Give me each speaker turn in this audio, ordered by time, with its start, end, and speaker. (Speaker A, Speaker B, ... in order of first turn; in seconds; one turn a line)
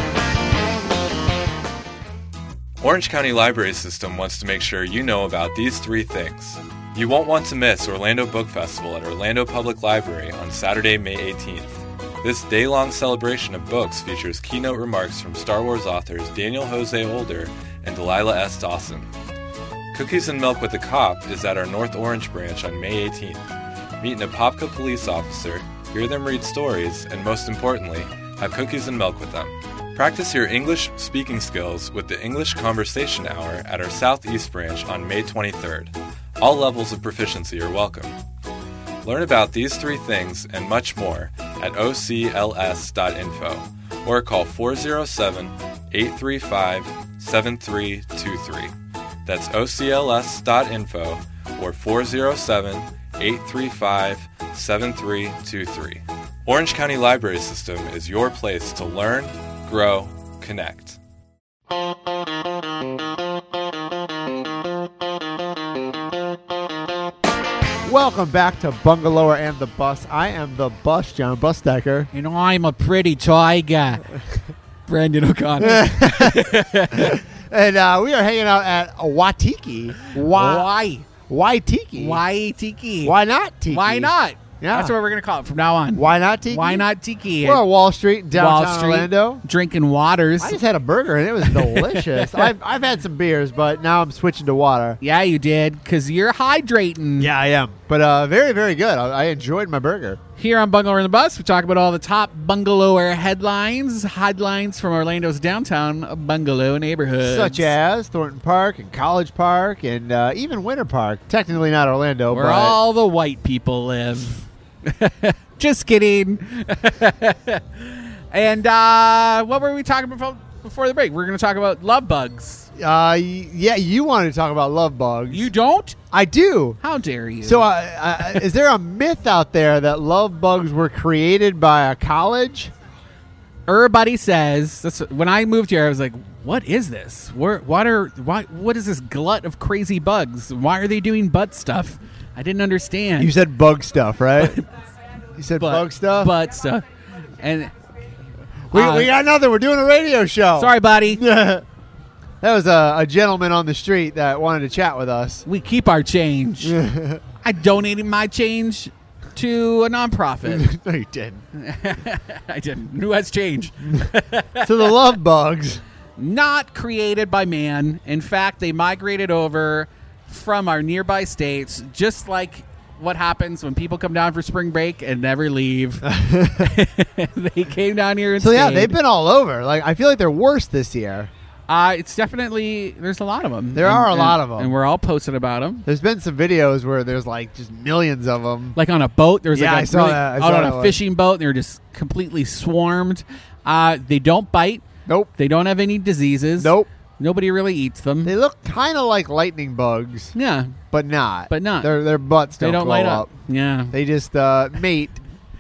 Speaker A: 2.8-19.1
Speaker A: 19.9-23.4
Speaker A: 24.0-38.1
Speaker A: 39.0-48.7
Speaker A: 49.3-61.0
Speaker B: 67.8-72.1
Speaker C: 72.1-74.1
Speaker C: 74.9-77.2
Speaker B: 75.6-80.7
Speaker C: 80.2-81.1
Speaker B: 81.3-82.2
Speaker C: 82.0-83.2
Speaker B: 83.0-84.9
Speaker C: 83.7-87.6
Speaker B: 86.0-86.9
Speaker B: 87.4-89.4
Speaker C: 88.3-90.6
Speaker B: 90.4-95.0
Speaker C: 91.4-92.5
Speaker C: 95.0-97.3
Speaker B: 97.2-100.2
Speaker C: 100.4-107.7
Speaker B: 107.2-112.8
Speaker C: 112.3-122.7
Speaker B: 122.8-125.5
Speaker C: 125.3-126.0
Speaker B: 126.1-126.8
Speaker C: 126.8-127.7
Speaker B: 127.4-132.7
Speaker C: 133.7-143.3
Speaker B: 143.2-144.6
Speaker C: 144.4-144.7
Speaker B: 145.4-146.3
Speaker C: 145.6-146.8
Speaker C: 147.4-147.7
Speaker C: 148.7-149.1
Speaker B: 148.7-151.6
Speaker C: 150.6-151.2
Speaker B: 152.4-155.4
Speaker C: 155.5-156.8
Speaker B: 156.6-157.2
Speaker C: 157.4-160.7
Speaker B: 160.4-161.4
Speaker C: 161.5-164.9
Speaker B: 164.6-165.8
Speaker C: 166.2-179.0
Speaker B: 176.0-176.8
Speaker B: 178.4-181.3
Speaker C: 181.7-185.9
Speaker B: 183.8-184.7
Speaker B: 185.9-188.8
Speaker C: 188.8-194.9
Speaker B: 189.5-191.0
Speaker C: 195.4-198.3
Speaker B: 196.6-196.9
Speaker B: 198.2-200.3
Speaker C: 200.3-200.8
Speaker B: 200.9-203.3
Speaker C: 201.5-202.0
Speaker C: 202.6-203.9
Speaker B: 203.9-205.2